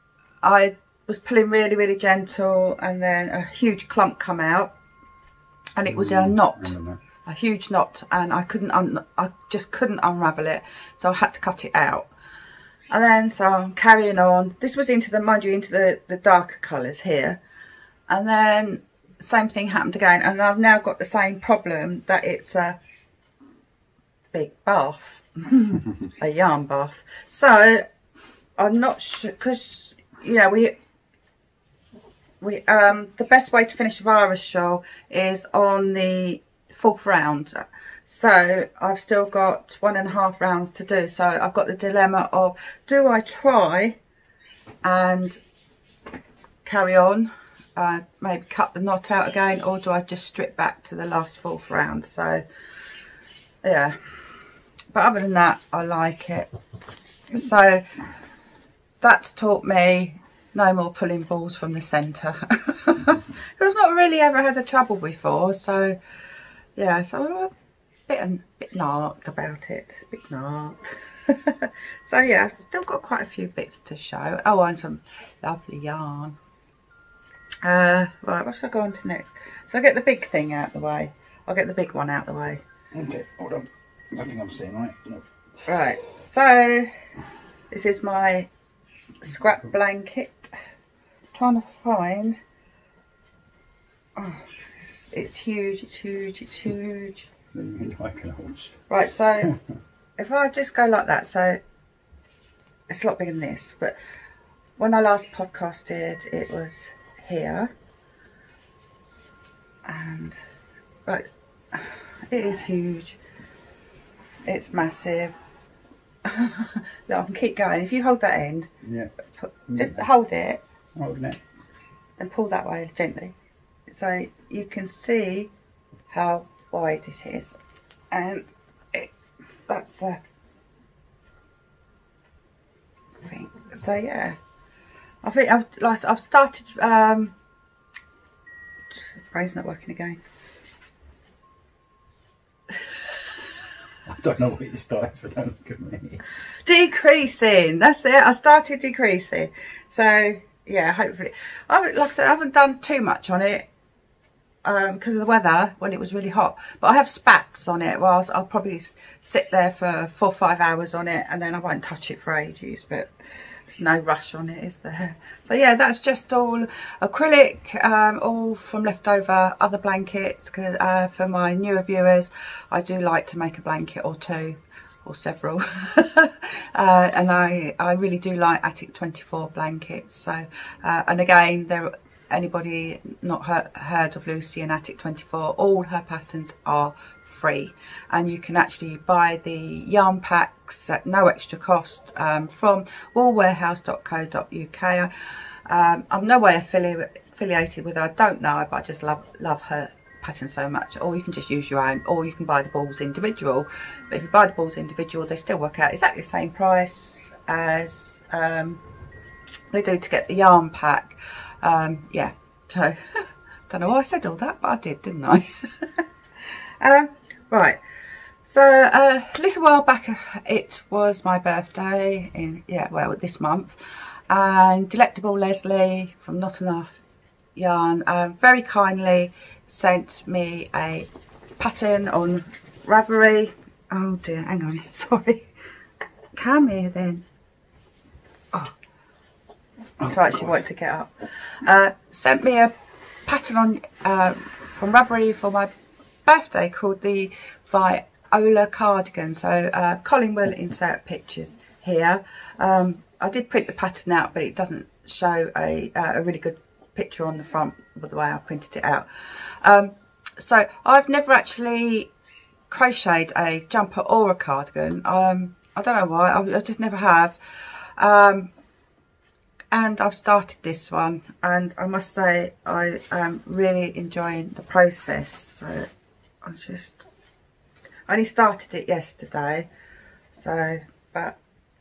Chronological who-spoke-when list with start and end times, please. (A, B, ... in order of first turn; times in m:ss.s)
0:00.4-0:04.7 A
0:05.8-0:12.1 A
0:05.9-0:07.0 B
0:12.9-0:17.4 A
0:18.1-0:22.8 A
0:24.3-0:27.8 A
0:28.6-0:30.8 A
0:32.4-0:44.0 A
0:44.8-0:45.4 A
0:46.6-0:52.4 A
0:53.6-0:54.2 A
0:54.9-0:56.5 A
0:57.3-0:57.9 A
0:59.0-1:06.0 A
1:06.8-1:07.5 A
1:08.1-1:16.4 A
1:17.6-1:22.6 A
1:22.9-1:25.2 B
1:25.7-1:26.9 A
1:27.7-1:28.5 A
1:29.2-1:30.5 A
1:31.3-1:32.4 A
1:34.2-1:37.3 A
1:37.5-1:38.8 B
1:38.9-1:39.5 A
1:40.2-1:41.6 A
1:42.9-1:44.0 A
1:44.8-1:47.7 A
1:49.8-1:50.4 A
1:51.1-1:53.2 A
1:54.4-1:55.3 A
1:56.2-1:58.7 A
1:58.8-1:59.1 B
1:59.4-2:00.6 A
1:59.7-2:00.0 B
2:01.0-2:01.4 B
2:02.2-2:03.4 A
2:03.9-2:05.5 A
2:06.1-2:07.6 A
2:08.1-2:09.2 A
2:09.7-2:10.2 A
2:13.2-2:14.4 A
2:15.2-2:17.3 A
2:19.2-2:20.2 A
2:24.1-2:26.2 B
2:26.6-2:33.7 A
2:34.6-2:43.1 A
2:43.7-3:15.1 A
3:15.7-3:28.8 A
3:29.7-3:36.0 A
3:36.8-3:37.8 A
3:38.4-3:43.8 A
3:44.3-3:47.0 A
3:47.6-3:51.1 A
3:51.6-3:55.5 A
3:56.4-3:57.2 A
4:00.0-4:00.6 B
4:00.0-4:02.7 A
4:03.3-4:05.7 A
4:06.3-4:19.1 A
4:19.6-4:22.1 A
4:22.7-4:27.4 A
4:28.0-4:28.5 A
4:29.7-4:35.9 A
4:36.4-4:37.1 A
4:38.1-4:39.7 A
4:40.4-4:41.4 A